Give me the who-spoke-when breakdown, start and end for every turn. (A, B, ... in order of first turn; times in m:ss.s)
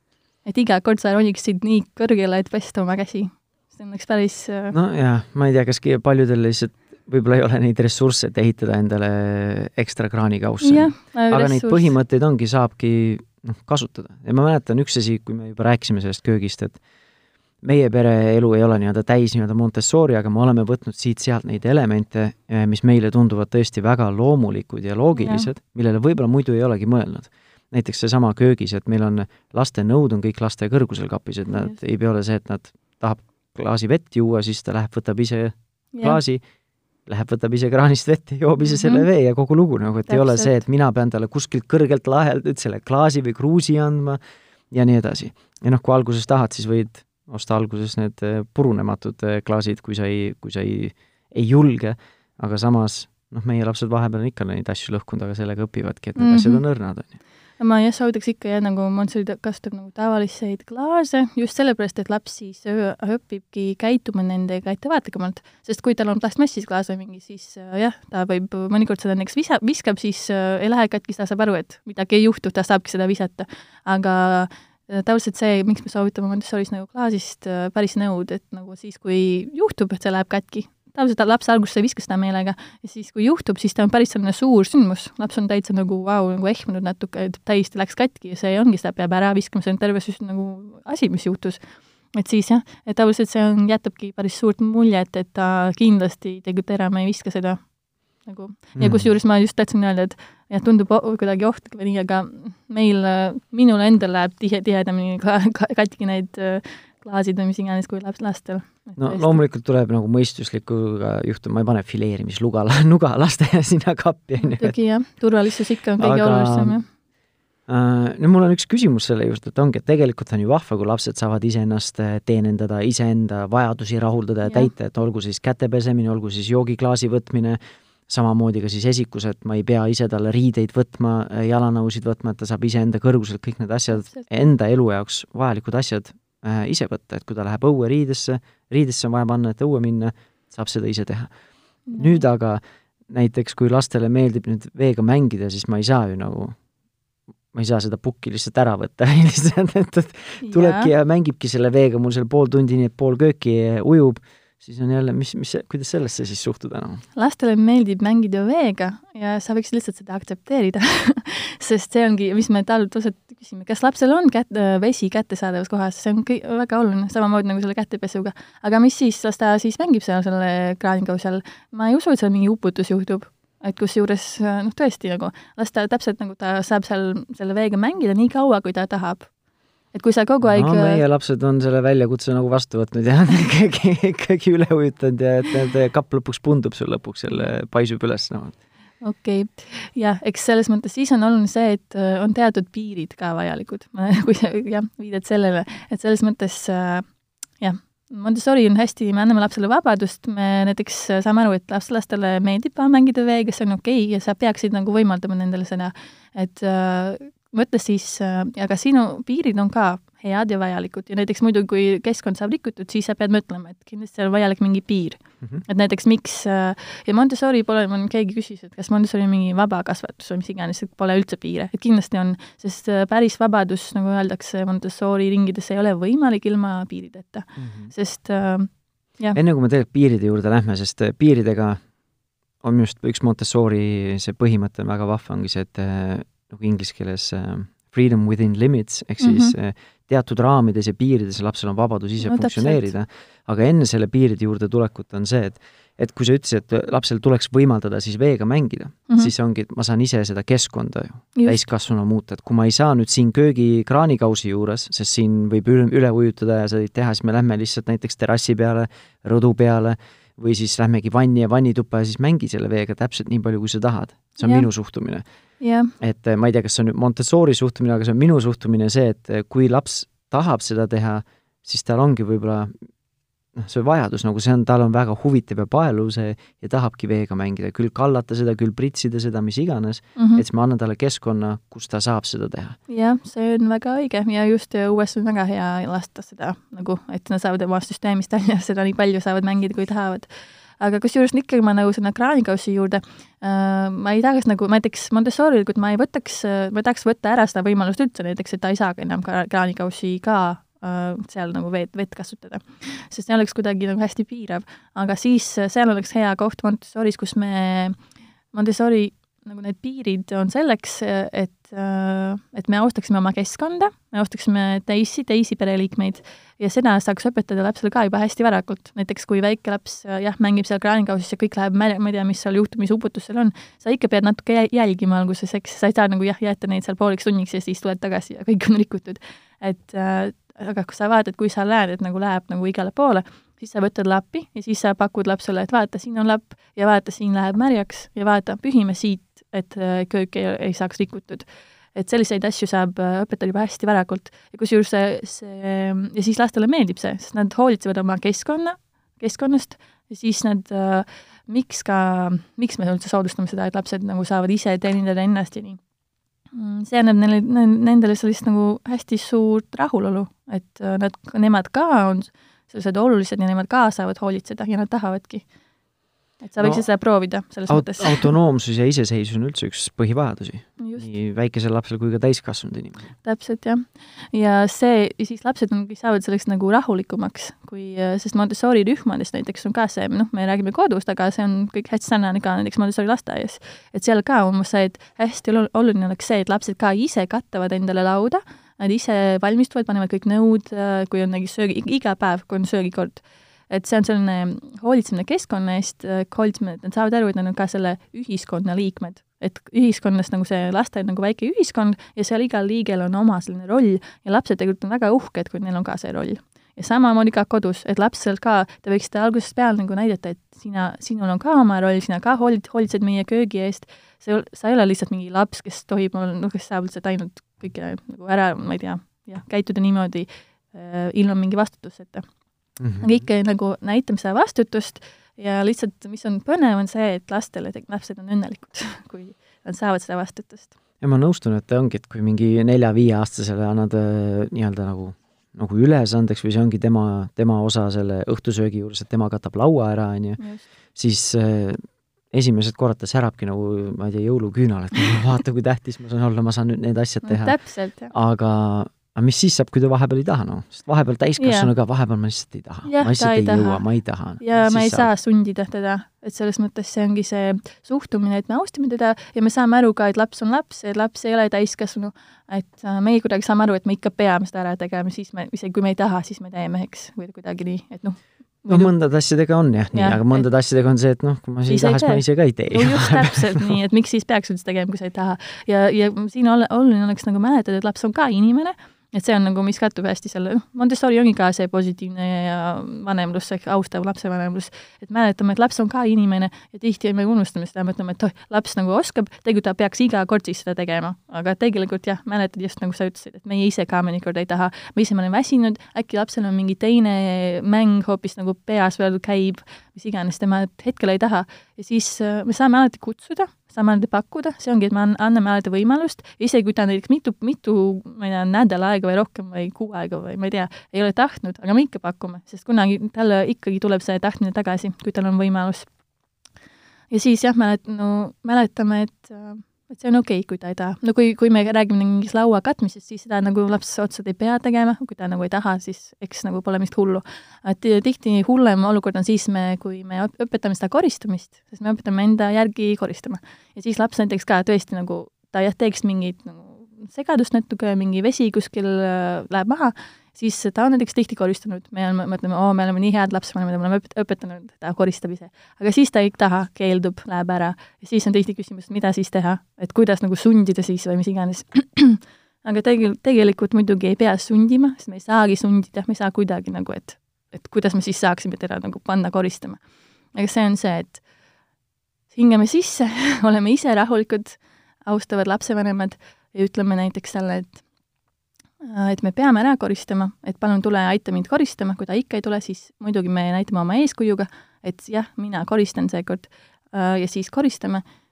0:00.4-0:04.8 A
0:04.7-0:16.8 B
0:10.6-0:11.9 A
0:17.6-0:36.4 B
0:25.1-0:25.5 A
0:35.9-0:36.2 A
0:37.0-0:44.2 B
0:38.6-0:39.0 A
0:40.1-0:40.6 A
0:44.7-0:57.2 B
0:56.2-0:56.6 A
0:57.6-1:31.6 A
1:32.1-1:37.6 A
1:38.2-1:49.4 A
1:38.8-1:39.1 B
1:49.0-1:54.8 B
1:54.4-1:56.8 A
1:56.0-1:56.8 B
1:57.7-2:21.3 B
2:04.4-2:04.7 A
2:13.9-2:14.3 A
2:21.9-2:22.2 A
2:22.0-2:26.6 B
2:27.5-2:37.0 B
2:30.4-2:30.9 A
2:37.2-2:59.3 A
2:59.9-3:01.0 A
3:00.4-3:08.6 B
3:09.0-3:17.0 A
3:17.6-3:49.4 A
3:47.6-3:47.9 B
3:49.3-3:51.8 B
3:52.6-4:25.2 B
3:59.2-3:59.5 A
4:02.2-4:02.9 A
4:11.3-4:11.6 A
4:24.4-4:24.7 A
4:25.6-4:25.9 A
4:26.0-4:32.7 B
4:33.5-4:42.8 B
4:40.2-4:40.4 A
4:42.9-5:08.0 A
5:08.5-5:55.8 A
5:56.5-6:05.4 A
6:06.4-6:08.3 A
6:06.6-6:06.9 B
6:07.7-6:13.1 B
6:10.8-6:11.1 A
6:13.2-7:02.2 A
7:02.8-7:03.2 B
7:03.0-7:10.7 A
7:11.0-7:20.4 B
7:20.4-7:20.7 A
7:20.9-7:27.6 B
7:27.2-7:28.1 A
7:28.1-7:35.1 B
7:31.4-7:31.7 A
7:32.8-7:33.8 A
7:34.4-7:48.9 A
7:48.7-7:53.7 B
7:49.9-7:50.4 A
7:51.7-8:35.9 A
8:37.1-9:19.8 A
9:20.3-9:21.2 A
9:22.3-9:27.8 A
9:28.8-9:38.0 A